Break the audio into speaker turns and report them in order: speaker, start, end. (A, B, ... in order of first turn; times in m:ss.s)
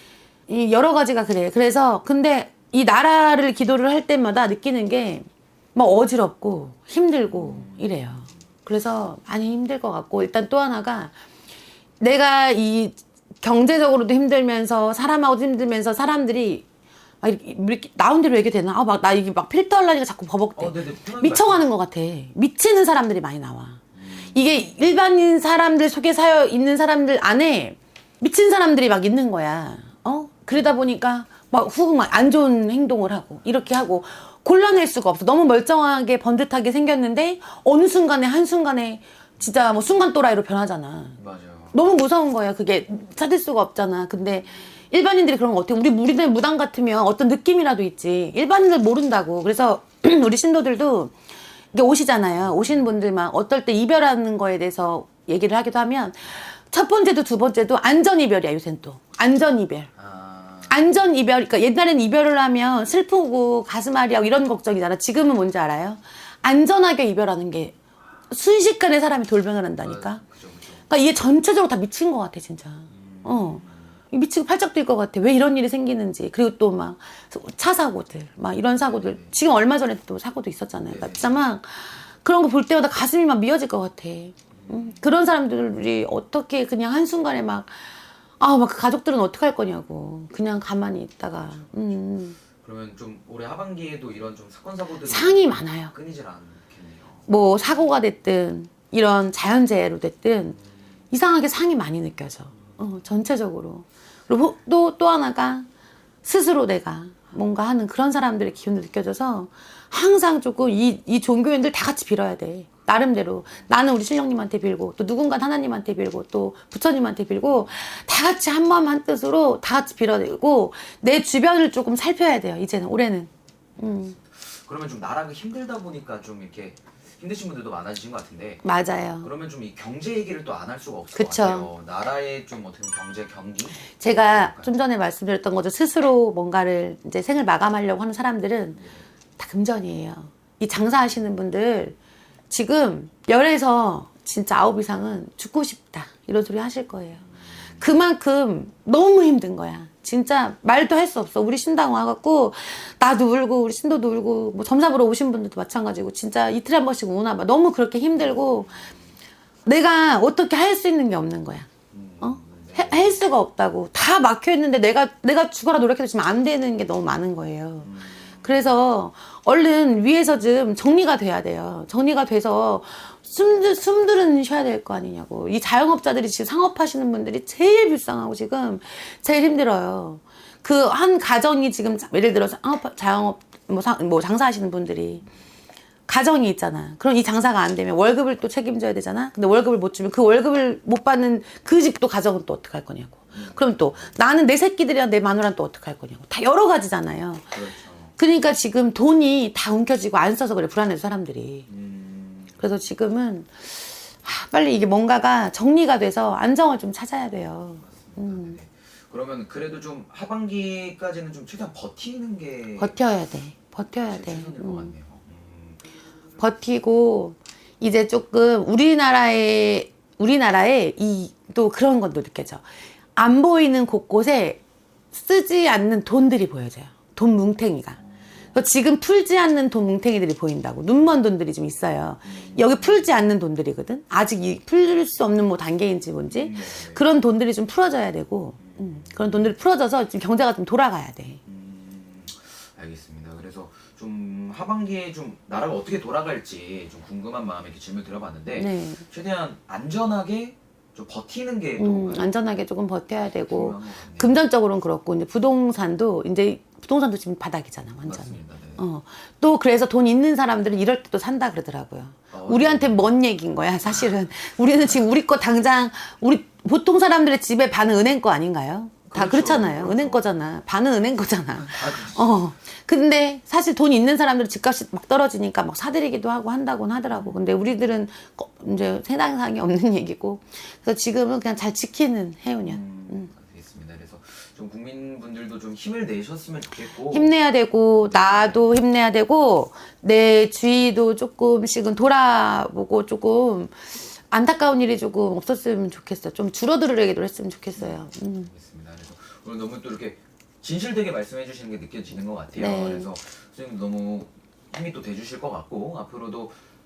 0:00.5-0:11.1 A
0:07.3-0:07.8 B
0:12.0-0:16.7 A
0:17.2-0:41.2 A
0:20.6-0:21.7 B
0:24.0-0:24.7 B
0:41.2-0:41.8 B
0:41.7-0:51.2 A
0:51.7-0:59.9 A
0:52.4-0:52.9 B
1:00.0-1:00.9 B
1:00.7-1:07.8 A
1:08.3-1:10.2 A
1:09.8-1:10.9 B
1:10.9-1:32.4 A
1:12.9-1:14.0 B
1:18.8-1:19.4 B
1:20.8-1:21.4 B
1:24.5-1:25.0 B
1:31.3-1:31.9 B
1:32.6-1:37.6 B
1:35.0-1:35.9 A
1:37.3-1:40.6 A
1:41.1-1:45.7 A
1:46.2-2:04.2 A
2:03.8-2:14.7 B
2:08.6-2:09.3 A
2:11.2-2:11.7 A
2:14.0-2:18.8 A
2:18.8-2:19.1 B
2:19.4-2:22.0 A
2:22.5-2:27.2 A
2:27.3-2:28.0 B
2:27.8-2:38.9 A
2:38.2-2:39.0 B
2:39.6-2:41.7 A
2:41.9-2:43.2 B
2:42.2-3:05.2 A
2:47.8-2:48.8 B
3:06.1-3:17.6 A
3:13.3-3:14.2 B
3:17.5-3:18.2 B
3:18.2-3:21.7 A
3:21.7-3:22.6 B
3:22.6-3:28.6 A
3:27.8-3:33.0 B
3:32.8-3:34.9 A
3:34.1-3:36.0 B
3:36.4-3:44.6 A
3:45.1-3:48.0 A
3:48.5-4:01.4 A
3:52.3-3:53.2 B
3:56.3-3:57.1 B
3:58.6-3:59.6 B
4:01.5-4:12.3 B
4:08.5-4:09.0 A
4:11.8-4:43.3 A
4:13.5-4:14.4 B
4:18.0-4:18.8 B
4:22.3-4:23.1 B
4:29.1-4:30.2 B
4:31.6-4:32.5 B
4:37.1-4:37.4 B
4:42.6-4:47.3 B
4:47.1-4:58.5 A
4:48.0-4:48.7 B
4:57.8-5:06.6 B
5:02.6-5:03.1 A